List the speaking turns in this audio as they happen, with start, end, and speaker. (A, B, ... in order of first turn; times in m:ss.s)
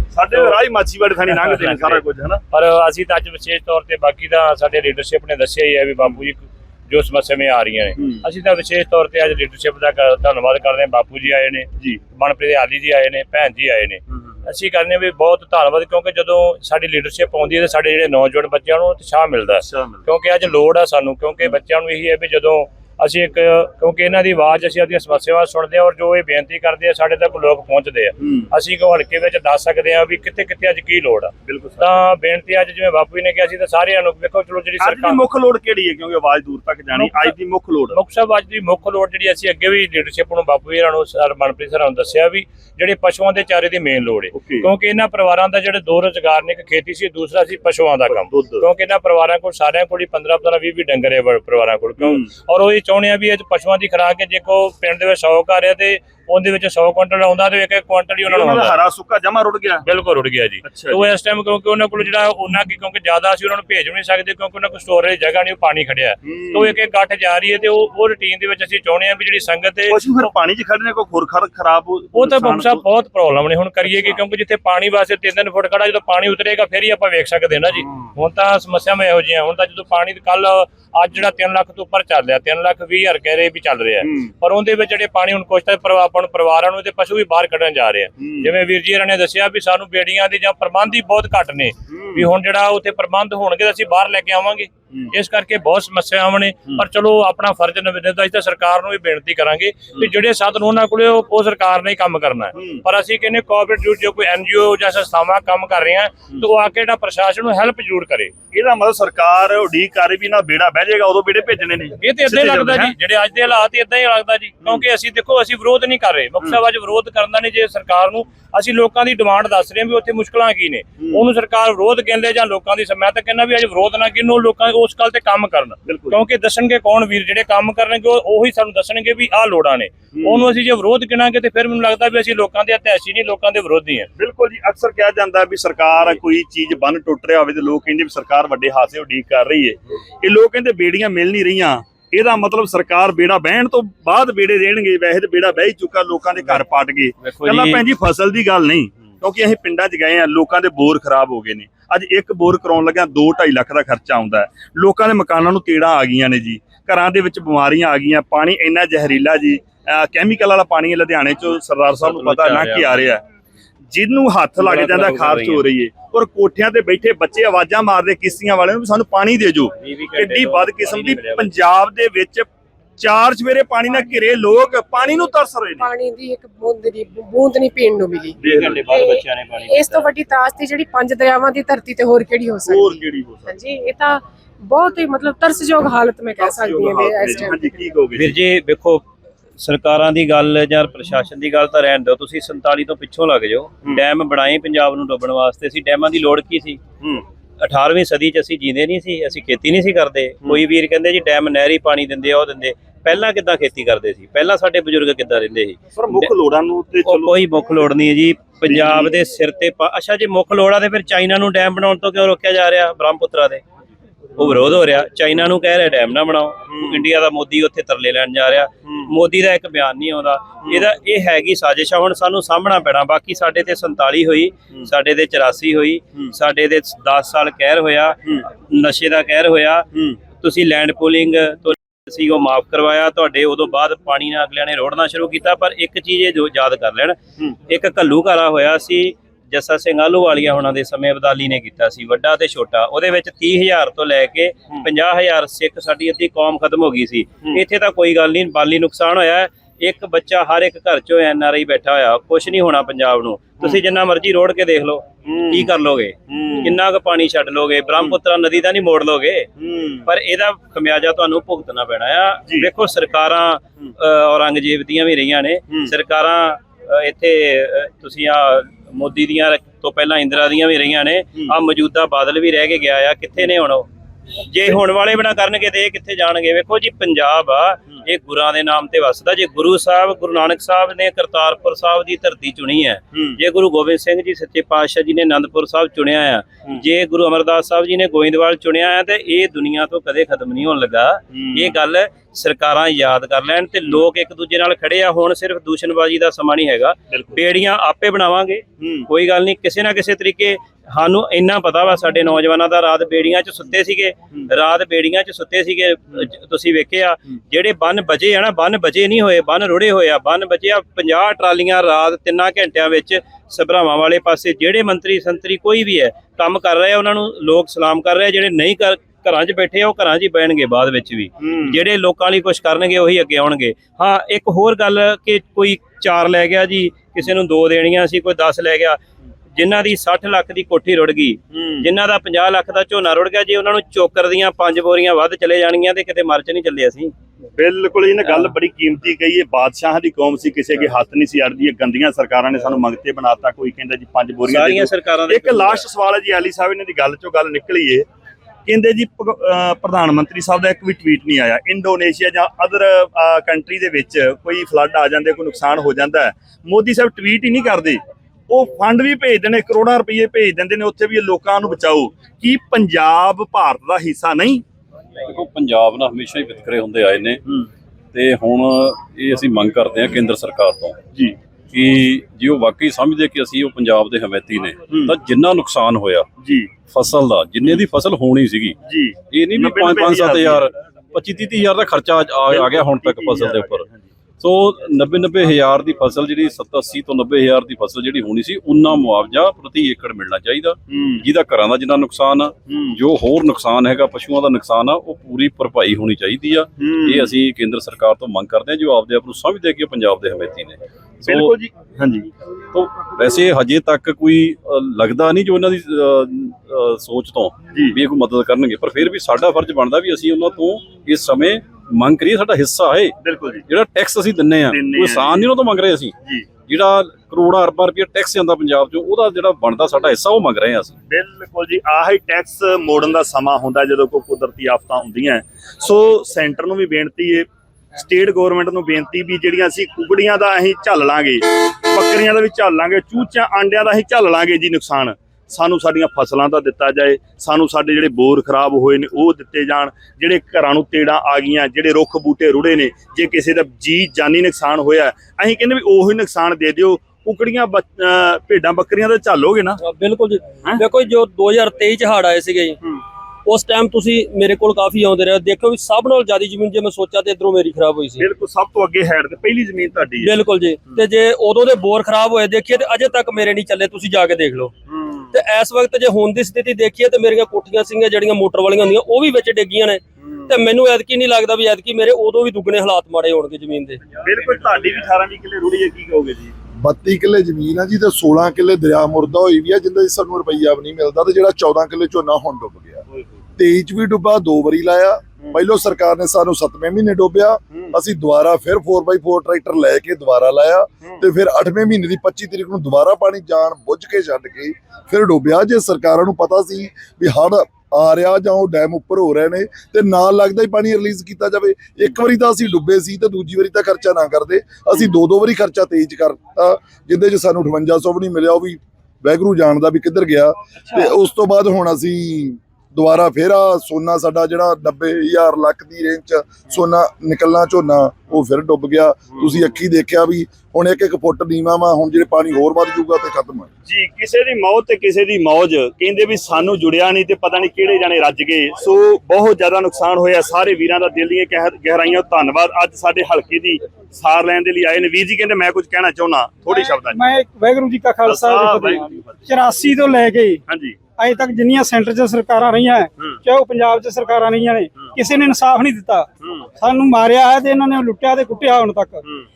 0:00.1-0:02.4 A
0:00.3-0:00.6 B
0:01.3-0:35.2 B
0:08.0-0:08.2 A
0:19.6-0:20.0 A
0:28.2-0:28.5 A
0:31.4-0:31.9 A
0:34.8-0:38.0 A
0:36.9-0:37.3 B
0:37.9-0:58.8 B
0:44.3-0:44.7 A
0:48.1-0:48.6 A
0:52.0-0:52.3 A
0:58.3-0:59.8 A
0:59.8-1:10.3 B
1:00.6-1:01.1 A
1:06.2-1:06.8 A
1:09.9-1:12.8 A
1:12.1-1:48.3 B
1:13.8-1:14.2 A
1:17.8-1:18.1 A
1:24.0-1:24.3 A
1:28.2-1:28.5 A
1:31.9-1:32.3 A
1:42.5-1:42.8 A
1:48.5-1:52.9 A
1:52.0-2:14.1 B
2:01.0-2:01.2 A
2:05.8-2:06.2 A
2:10.1-2:10.5 A
2:14.2-2:43.2 A
2:27.2-2:27.8 C
2:42.0-2:43.1 C
2:43.9-2:55.9 A
2:44.6-2:45.6 C
2:49.8-2:51.5 C
2:55.8-3:07.7 D
2:58.4-2:58.9 A
2:58.4-3:00.1 C
3:02.6-3:03.5 A
3:06.4-3:08.4 A
3:08.2-3:09.0 C
3:09.6-3:16.8 C
3:17.6-3:26.3 C
3:26.0-3:27.4 A
3:27.0-3:33.6 C
3:28.6-3:29.1 A
3:34.4-4:19.5 C
3:34.4-3:34.7 A
3:36.7-3:37.0 A
3:38.8-3:39.1 A
4:15.3-4:15.7 A
4:16.3-4:16.8 A
4:19.6-4:20.1 A
4:20.0-4:33.9 C
4:34.4-5:29.0 C
4:51.3-4:51.8 A
4:57.1-4:57.4 A
4:58.8-4:59.1 A
5:21.4-5:21.8 A
5:29.5-5:37.1 C
5:31.5-5:31.9 A
5:37.6-5:48.0 A
5:44.5-5:45.8 C
5:48.6-6:04.6 A
6:05.3-6:07.4 E
6:08.1-6:11.0 E
6:11.7-6:16.3 E
6:14.9-6:15.2 A
6:16.4-6:16.7 A
6:16.9-6:18.8 E
6:18.8-6:20.7 A
6:19.3-6:23.8 E
6:22.5-6:24.0 A
6:24.4-6:41.5 E
6:30.9-6:31.2 A
6:32.7-6:33.0 A
6:36.8-6:37.3 A
6:41.2-6:42.3 A
6:42.7-6:53.2 E
6:53.2-6:53.6 A
6:53.7-6:56.1 E
6:54.6-6:55.5 A
6:56.6-7:01.0 E
7:01.1-7:29.8 A
7:29.8-7:32.8 F
7:33.4-7:38.3 F
7:38.2-7:40.3 A
7:40.2-7:44.7 F
7:44.9-7:45.3 A
7:45.3-7:54.0 F
7:54.2-7:56.5 A
7:56.8-8:03.0 G
8:03.6-8:43.7 G
8:07.7-8:08.0 A
8:30.8-8:31.1 A
8:39.3-8:39.7 A
8:43.8-8:57.2 A
8:56.7-9:00.6 H
8:58.2-8:59.4 A
9:00.7-9:01.0 A
9:01.2-9:09.2 H